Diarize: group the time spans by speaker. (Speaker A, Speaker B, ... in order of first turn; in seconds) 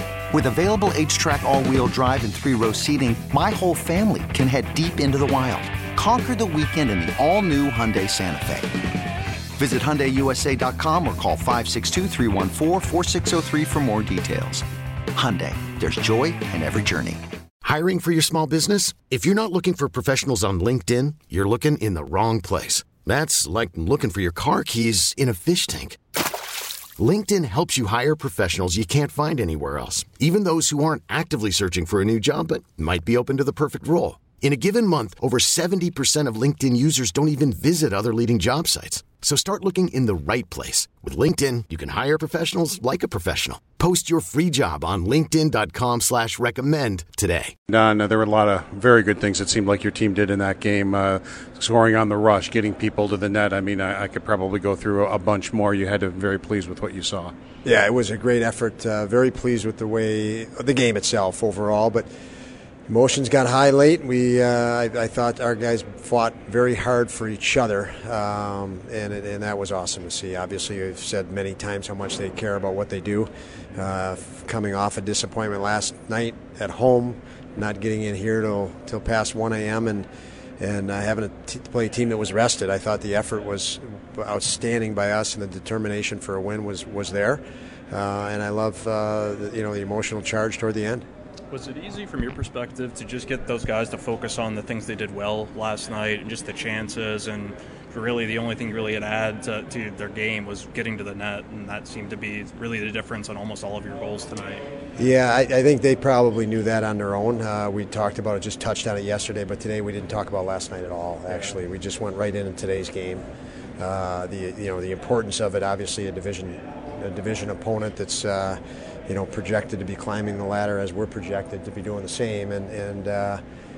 Speaker A: 0.3-8.7, 9.6-14.6, 15.1-17.2
Speaker B: 17.7-25.9, 27.0-47.5
Speaker C: 47.7-57.3
Speaker D: 57.6-62.1, 62.9-80.1, 80.6-91.0, 105.0-113.2, 113.8-123.4
Speaker E: 91.5-104.7